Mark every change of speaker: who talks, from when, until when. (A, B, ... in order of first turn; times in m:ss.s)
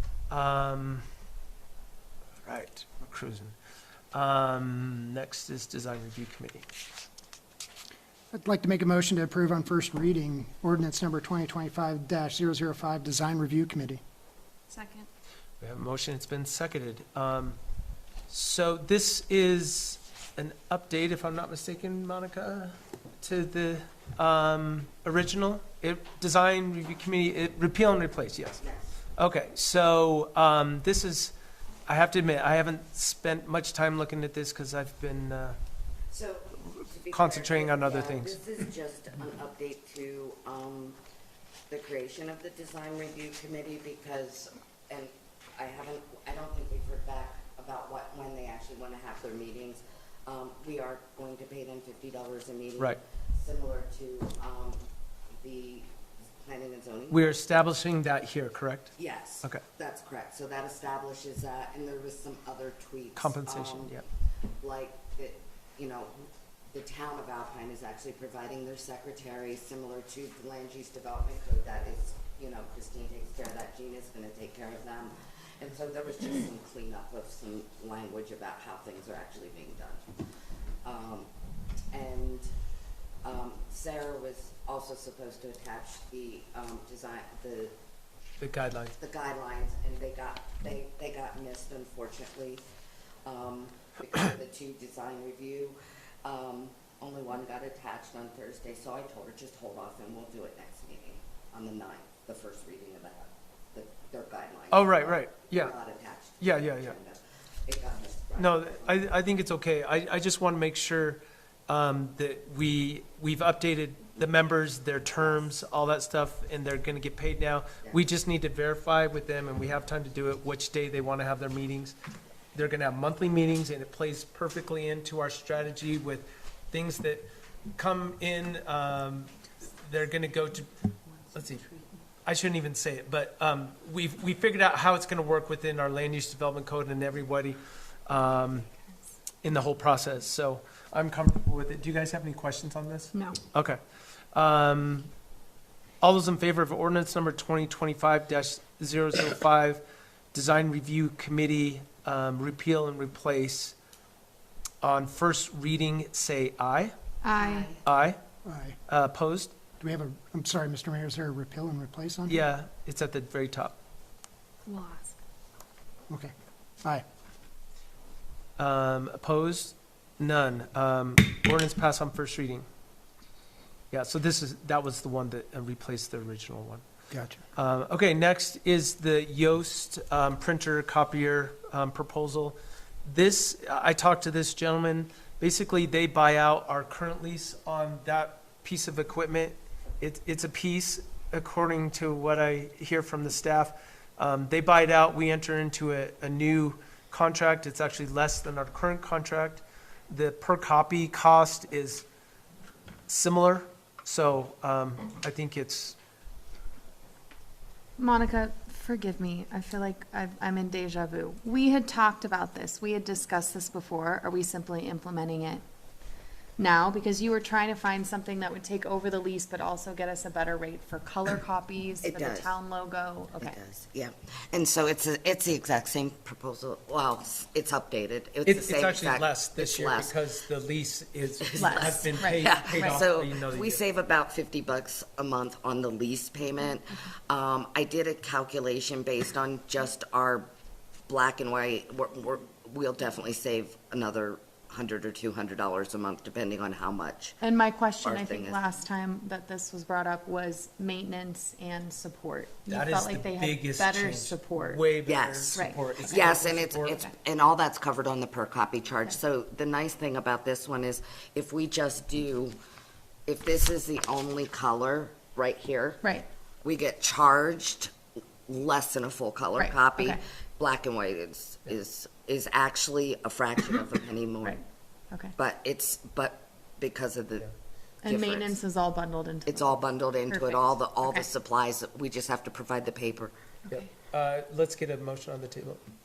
0:00.3-0:01.0 A
0:02.4-0:03.5 A
0:04.1-0:06.6 A
0:08.3-0:14.0 B
0:14.7-0:15.1 C
0:15.6-0:17.6 A
0:18.3-0:28.6 A
0:28.6-0:28.9 D
0:29.2-0:31.3 A
0:31.9-0:35.6 A
0:36.1-0:41.0 D
0:37.1-0:38.4 A
0:41.7-0:54.8 D
0:55.4-0:55.9 D
0:56.4-0:57.4 D
0:57.1-0:59.6 A
0:59.0-1:03.9 D
1:03.2-1:04.0 A
1:04.6-1:20.0 D
1:20.8-1:21.3 D
1:21.9-1:22.5 D
1:23.2-1:27.7 D
1:28.4-1:28.9 A
1:29.0-1:32.6 D
1:33.2-1:49.0 D
1:44.7-1:45.7 A
1:46.4-1:46.9 A
1:48.4-2:01.9 A
2:02.5-2:10.7 A
2:11.3-2:11.7 A
2:12.2-2:18.7 A
2:19.4-2:23.8 A
2:24.3-2:25.1 A
2:26.0-2:33.8 A
2:34.8-2:36.9 A
2:37.2-2:37.8 C
2:37.4-2:37.8 D
2:37.8-2:38.2 A
2:38.4-2:38.8 B
2:38.9-2:39.5 A
2:39.8-2:42.4 B
2:42.3-2:43.7 A
2:44.6-2:45.2 C
2:48.6-2:52.7 A
2:53.9-2:56.8 A
2:57.1-2:57.4 B
2:57.5-3:22.0 A
3:23.1-3:26.0 A
3:28.0-3:35.6 C
3:36.6-3:43.6 C
3:42.0-3:42.5 D
3:43.4-3:50.2 D
3:48.4-3:53.8 A
3:51.4-4:00.5 D
3:51.6-3:53.0 C
4:01.1-4:07.4 D
4:07.4-4:14.8 C
4:08.0-4:08.6 D
4:12.7-4:17.0 A
4:15.0-4:22.6 D
4:15.5-4:16.0 C
4:23.3-4:26.0 D
4:26.6-4:27.9 D
4:28.5-4:34.6 D
4:29.6-4:30.2 C
4:34.4-4:35.3 C
4:35.3-4:37.5 D
4:38.0-4:41.3 C
4:38.0-4:38.6 D
4:39.4-4:43.3 D
4:43.7-4:45.8 A